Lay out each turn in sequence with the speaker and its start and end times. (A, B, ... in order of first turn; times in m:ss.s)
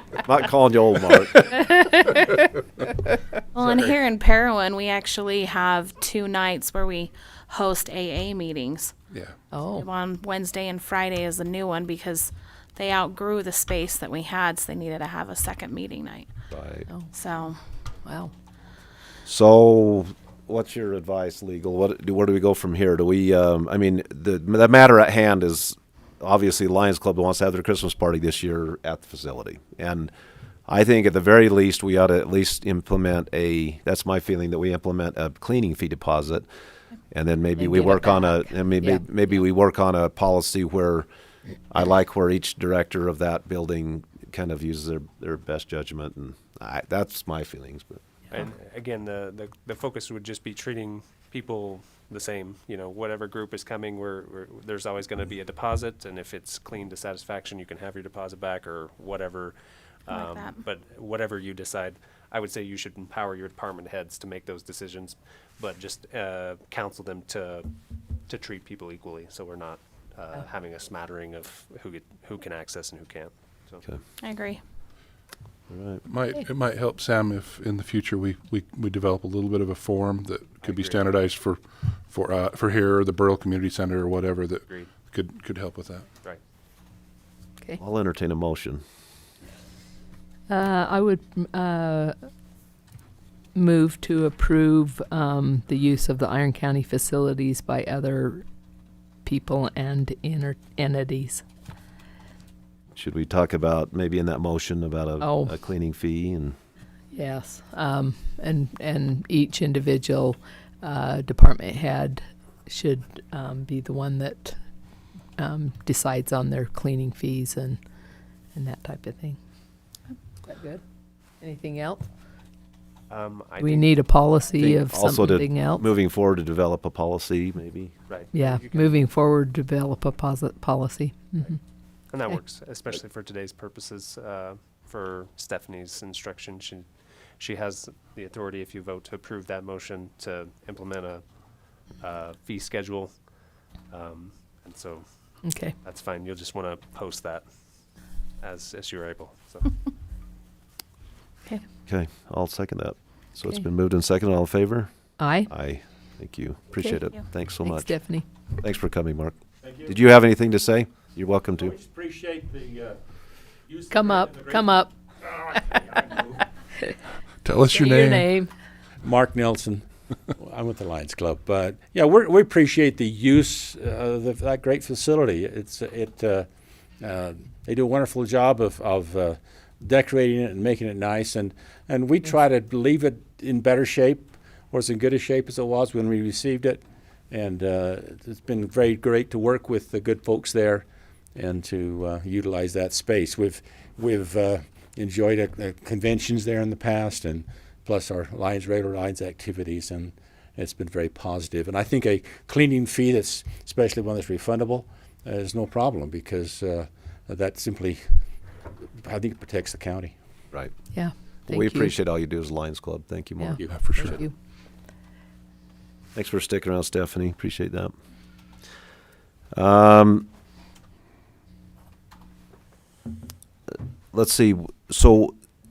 0:00.2-0:01.7 A
0:01.7-0:02.3 B
0:03.5-0:08.9 C
0:03.6-0:03.9 D
0:09.1-0:09.4 D
0:09.5-0:09.9 B
0:09.7-0:16.3 C
0:16.5-0:16.9 A
0:17.1-0:17.6 C
0:18.0-0:18.3 B
0:19.3-0:30.1 A
0:30.7-0:36.5 A
0:37.1-0:41.1 A
0:37.6-0:39.0 B
0:41.7-0:48.0 A
0:48.3-0:59.6 E
1:00.1-1:07.7 E
1:00.1-1:00.6 C
1:08.3-1:13.9 E
1:14.2-1:14.6 C
1:15.7-1:16.0 A
1:16.1-1:26.1 D
1:20.6-1:21.0 E
1:24.7-1:24.9 E
1:27.8-1:28.8 A
1:30.5-1:32.2 B
1:33.6-1:38.4 B
1:39.2-1:41.4 B
1:43.0-1:46.6 A
1:45.2-1:45.6 B
1:47.1-1:54.6 B
1:55.4-1:57.8 B
1:58.6-1:59.4 B
2:00.4-2:00.8 B
2:01.4-2:02.1 B
2:03.1-2:04.0 E
2:03.6-2:05.9 B
2:04.6-2:07.9 A
2:08.1-2:08.9 E
2:08.3-2:11.6 B
2:12.1-2:16.9 E
2:17.4-2:21.2 E
2:22.0-2:23.3 E
2:23.9-2:25.0 E
2:25.4-2:25.8 B
2:25.7-2:27.4 E
2:28.4-2:29.7 E
2:31.9-2:38.0 A
2:35.2-2:35.5 B
2:36.8-2:38.2 B
2:38.6-2:41.8 A
2:39.6-2:40.0 F
2:41.6-2:43.0 F
2:43.7-2:44.6 F
2:43.9-2:44.9 B
2:47.4-2:48.4 D
2:47.7-2:48.5 B
2:49.0-2:56.5 F
2:57.0-3:28.3 F
3:29.0-3:30.2 F
3:30.9-3:32.0 B
3:31.5-3:33.7 A
3:33.4-3:34.3 B
3:33.7-3:34.2 D
3:36.2-3:37.9 A
3:39.5-3:40.3 A
3:44.1-3:45.4 A